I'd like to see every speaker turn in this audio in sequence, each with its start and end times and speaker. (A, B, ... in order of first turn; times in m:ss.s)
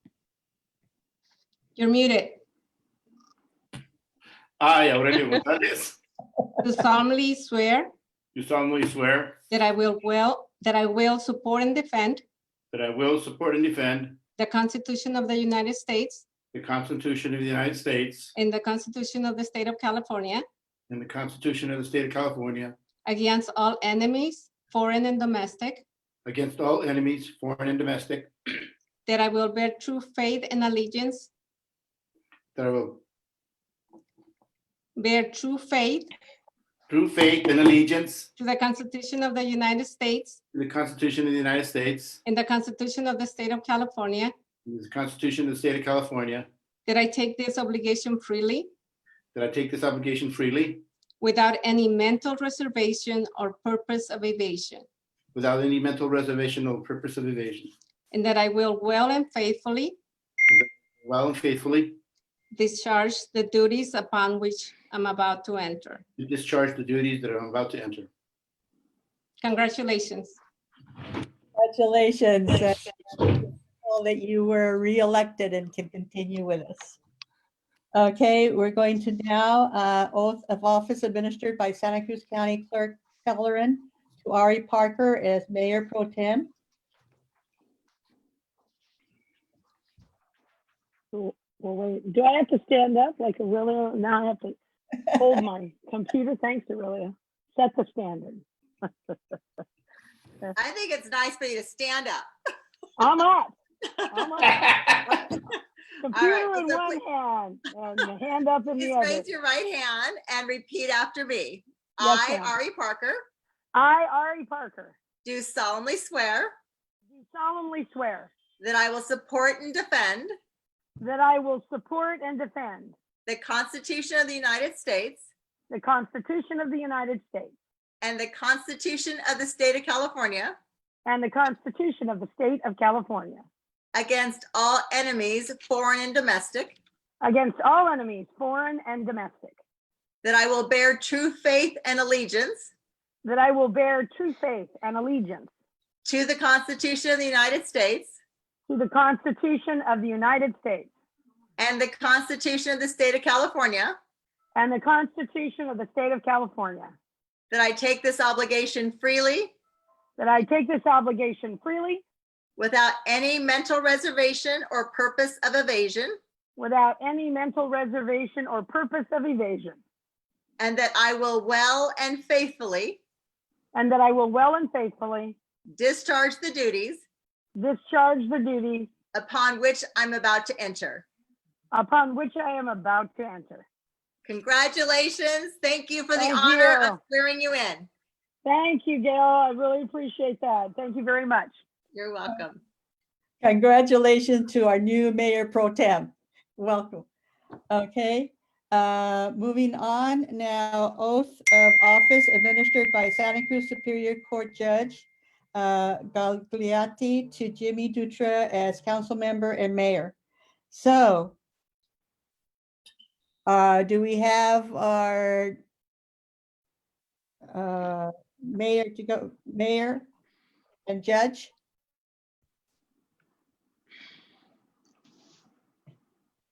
0:01.8-0:02.4 A
0:04.6-0:06.0 B
0:06.6-0:07.9 A
0:08.3-0:09.4 B
0:09.5-0:12.2 A
0:12.7-0:14.2 B
0:14.4-0:16.2 A
0:16.5-0:18.3 B
0:18.3-0:20.4 A
0:20.9-0:22.8 B
0:23.0-0:25.8 A
0:26.2-0:28.3 B
0:29.0-0:31.3 A
0:32.5-0:33.0 B
0:35.0-0:36.1 A
0:36.9-0:38.3 B
0:38.4-0:40.4 A
0:40.5-0:42.2 B
0:42.2-0:44.3 A
0:44.6-0:46.5 B
0:46.8-0:48.7 A
0:49.3-0:50.8 B
0:51.2-0:54.8 A
0:55.3-0:57.7 B
0:58.1-1:00.0 A
1:00.5-1:02.0 B
1:02.5-1:06.0 A
1:06.2-1:08.1 B
1:09.4-1:10.4 A
1:11.5-1:17.0 C
1:17.9-1:26.5 C
1:31.1-1:39.4 D
1:40.6-1:42.2 E
1:43.0-1:43.6 D
1:44.1-1:45.4 D
1:46.0-1:49.3 D
1:46.1-1:47.0 E
1:48.8-1:53.2 E
1:52.0-1:52.6 D
1:53.7-1:55.0 D
1:55.2-1:56.5 E
1:57.1-1:58.3 D
1:58.6-2:00.3 E
2:01.0-2:03.0 D
2:03.2-2:05.2 E
2:05.7-2:07.5 D
2:08.0-2:10.6 E
2:11.0-2:13.4 D
2:13.9-2:16.8 E
2:17.2-2:19.6 D
2:20.2-2:22.7 E
2:23.2-2:25.5 D
2:26.0-2:28.1 E
2:28.7-2:30.9 D
2:31.6-2:34.0 E
2:34.6-2:37.0 D
2:37.5-2:39.5 E
2:40.2-2:42.0 D
2:42.6-2:46.2 E
2:46.6-2:49.8 D
2:50.6-2:53.0 E
2:53.7-2:55.4 D
2:55.7-2:57.0 E
2:57.5-2:58.9 D
2:59.1-3:01.0 E
3:01.7-3:03.6 D
3:04.2-3:07.9 E
3:06.1-3:07.0 D
3:08.4-3:11.5 D
3:11.9-3:12.6 E
3:13.4-3:17.1 C
3:17.7-3:30.1 C
3:30.7-3:31.4 C
3:33.4-3:35.6 C
3:37.5-3:40.1 C
3:40.8-3:41.5 C